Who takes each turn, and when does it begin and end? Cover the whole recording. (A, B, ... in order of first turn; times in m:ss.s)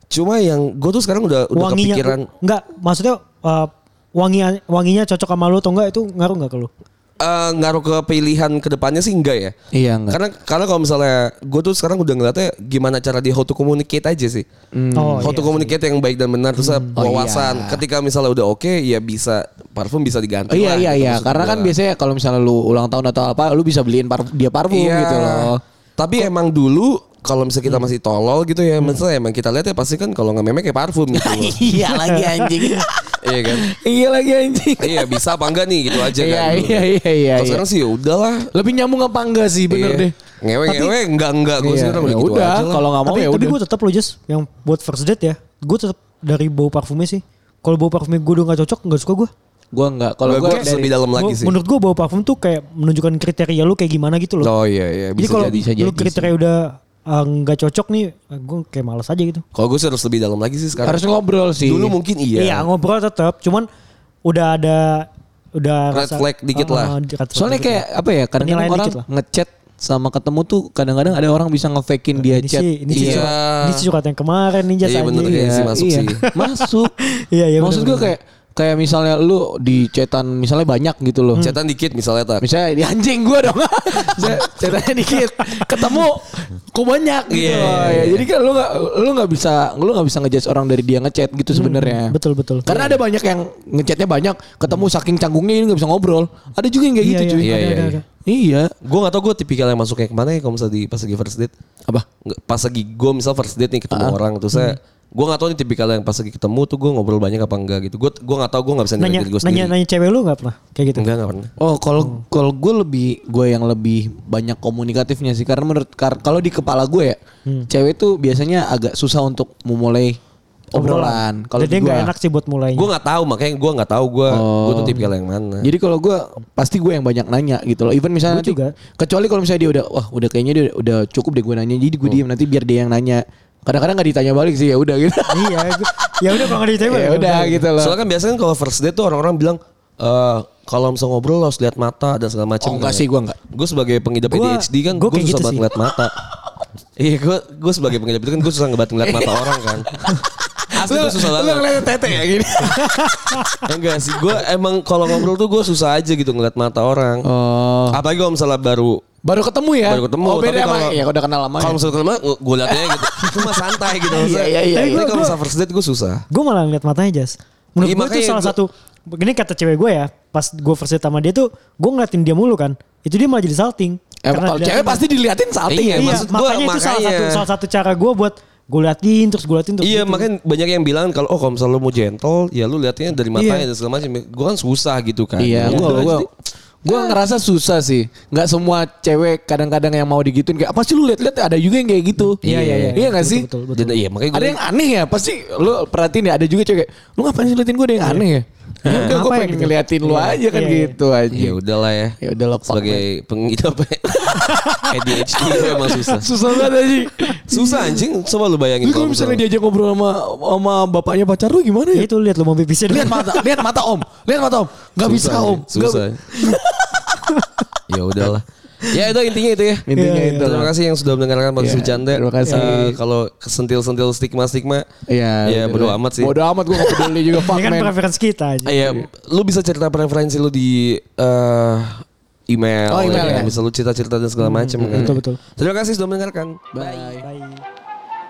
0:00.1-0:02.3 A
0:01.5-0:06.7 B
0:07.2-0:09.5 A
0:09.7-0:10.2 C
0:10.1-0:14.4 A
0:14.7-0:15.7 C
0:15.0-0:15.4 B
0:15.2-0:21.7 A
0:16.6-0:16.9 B
0:17.0-0:17.8 C
0:20.5-0:25.6 C
0:24.7-0:31.6 A
0:31.1-0:35.2 C
0:31.8-0:32.6 B
0:33.2-0:33.7 A
0:34.8-0:38.5 A
0:35.9-0:37.6 C
0:38.5-0:40.1 C
0:39.7-0:42.8 A
0:40.7-0:40.9 B
0:41.6-0:43.6 C
0:43.0-0:49.3 B
0:49.7-0:50.9 C
0:50.2-0:51.6 A
0:51.2-0:54.5 B
0:54.4-0:55.6 A
0:55.2-0:56.3 C
0:55.2-0:59.4 B
0:59.5-1:01.0 A
1:00.8-1:01.9 C
1:01.6-1:02.6 A
1:02.4-1:03.7 B
1:04.2-1:07.8 B
1:05.9-1:06.9 A
1:07.3-1:13.3 C
1:08.4-1:09.0 B
1:12.2-1:15.4 B
1:12.9-1:13.8 A
1:14.8-1:16.2 A
1:15.2-1:16.9 C
1:16.6-1:18.1 B
1:17.6-1:21.4 C
1:21.4-1:22.4 A
1:22.4-1:37.5 C
1:27.3-1:28.2 A
1:31.5-1:32.6 B
1:32.7-1:33.0 A
1:37.0-1:38.0 B
1:37.4-1:38.0 A
1:38.2-1:38.7 C
1:38.8-1:41.5 A
1:42.2-1:49.7 A
1:43.9-1:44.2 C
1:49.0-1:51.1 B
1:51.0-1:51.5 A
1:51.6-1:57.2 C
1:57.7-2:00.2 C
2:00.7-2:02.1 C
2:00.7-2:02.9 B
2:02.7-2:05.7 A
2:04.3-2:05.1 C
2:05.6-2:18.0 C
2:08.3-2:08.7 B
2:15.3-2:17.7 B
2:17.8-2:26.2 A
2:22.6-2:23.4 C
2:24.3-2:25.7 B
2:27.0-2:30.0 A
2:29.0-2:33.6 C
2:30.7-2:31.9 A
2:32.7-2:33.4 B
2:33.6-2:37.3 A
2:37.2-2:38.0 C
2:37.9-2:39.0 A
2:39.2-2:41.8 C
2:39.8-2:41.0 A
2:41.6-2:46.2 A
2:42.6-2:45.3 C
2:44.7-2:45.3 B
2:46.3-2:55.0 B
2:47.8-2:48.6 A
2:54.2-2:56.3 C
2:55.7-2:57.4 A
2:56.0-3:00.3 B
2:59.8-3:06.3 A
3:03.3-3:03.6 B
3:05.4-3:06.3 C
3:05.7-3:06.1 B
3:06.8-3:13.5 C
3:12.3-3:14.0 B
3:12.5-3:12.9 A
3:13.7-3:14.6 A
3:14.3-3:21.6 C
3:18.8-3:19.2 A
3:18.9-3:20.9 B
3:21.3-3:22.2 A
3:22.2-3:23.0 C
3:22.7-3:26.3 A
3:24.3-3:24.9 B
3:25.2-3:27.8 C
3:25.6-3:26.1 B
3:27.5-3:29.4 A
3:28.8-3:32.1 C
3:31.9-3:33.4 B
3:32.9-3:37.1 C
3:35.0-3:36.2 A
3:37.4-3:37.6 B
3:37.9-3:39.9 A
3:39.9-3:40.7 C
3:40.0-3:40.5 B
3:40.4-3:44.9 A
3:41.6-3:43.0 C
3:45.1-3:47.9 C
3:45.4-3:46.3 A
3:46.8-3:49.0 B
3:48.6-3:56.8 A
3:52.9-3:53.6 C
3:53.1-3:53.4 B
3:54.4-3:55.4 B
3:54.8-3:55.2 C
3:56.7-3:57.2 C
3:56.8-3:57.6 B